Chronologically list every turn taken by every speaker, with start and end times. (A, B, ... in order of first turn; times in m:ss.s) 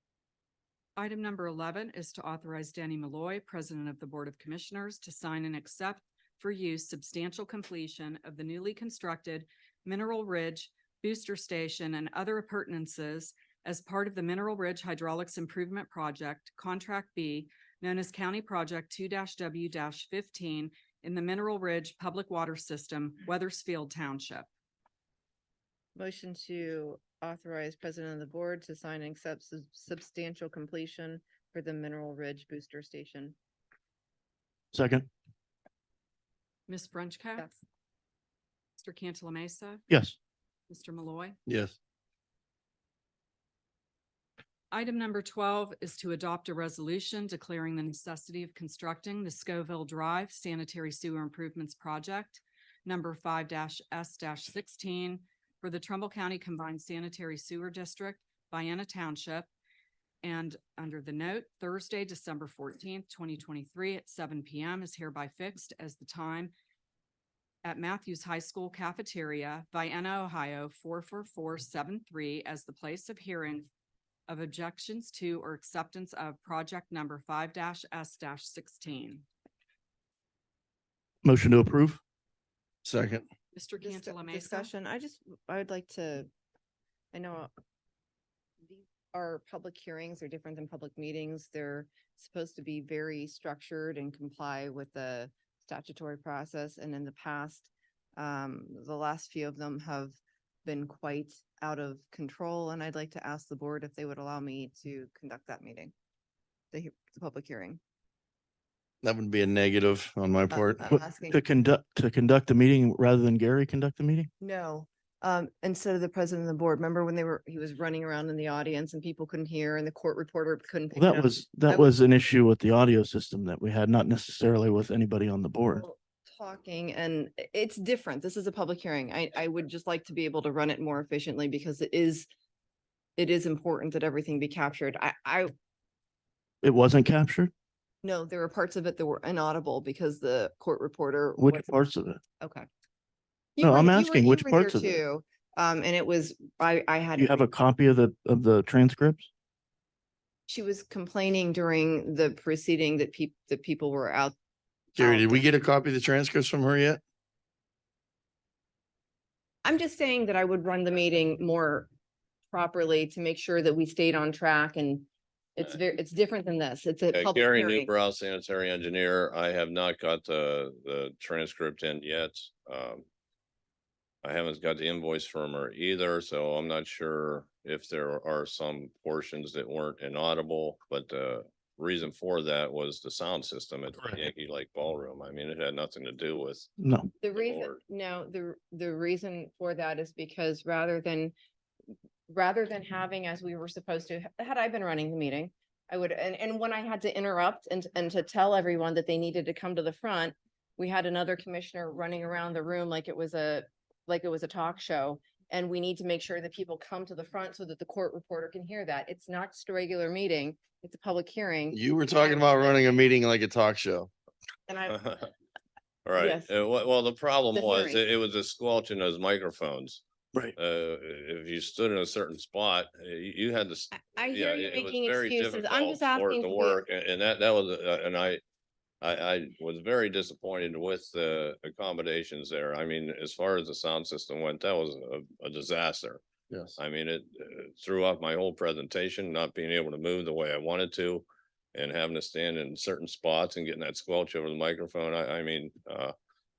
0:01.0-0:24.5 A
0:25.9-0:33.4 B
0:34.7-0:35.1 C
0:36.7-0:37.5 A
0:38.8-0:39.8 A
0:39.9-0:40.2 C
0:40.7-0:41.4 A
0:41.4-0:41.7 D
0:44.7-0:59.5 A
1:00.2-1:06.5 A
1:07.6-1:13.7 A
1:14.3-1:19.2 A
1:21.2-1:22.0 C
1:22.8-1:23.2 D
1:23.5-1:24.7 A
1:23.8-1:26.3 B
1:27.1-1:27.5 B
1:28.6-1:45.9 B
1:46.7-1:47.8 B
1:49.0-1:50.8 D
1:50.5-1:51.4 B
1:50.9-1:54.3 C
1:54.4-2:01.9 B
2:00.9-2:05.8 C
2:05.8-2:12.3 B
2:13.2-2:15.5 B
2:16.6-2:17.5 C
2:18.0-2:21.7 B
2:21.4-2:22.2 C
2:22.4-2:22.7 B
2:23.6-2:27.4 B
2:23.6-2:25.0 C
2:27.2-2:29.3 C
2:30.5-2:34.3 B
2:35.0-2:35.5 B
2:35.0-2:37.0 D
2:39.6-2:41.9 B
2:42.5-2:47.9 B
2:47.1-2:53.0 E
2:54.2-3:06.7 E
3:06.8-3:07.1 C
3:07.2-3:11.3 B
3:07.3-3:07.8 E
3:12.3-3:32.9 B
3:31.7-3:34.1 D
3:34.7-3:35.0 B
3:34.9-3:35.2 E
3:36.0-3:40.0 E
3:36.2-3:36.5 B
3:37.5-3:38.0 B
3:40.6-3:48.4 E
3:43.9-3:46.8 B
3:49.0-3:56.2 E
3:56.5-3:56.8 D
3:56.8-4:06.1 E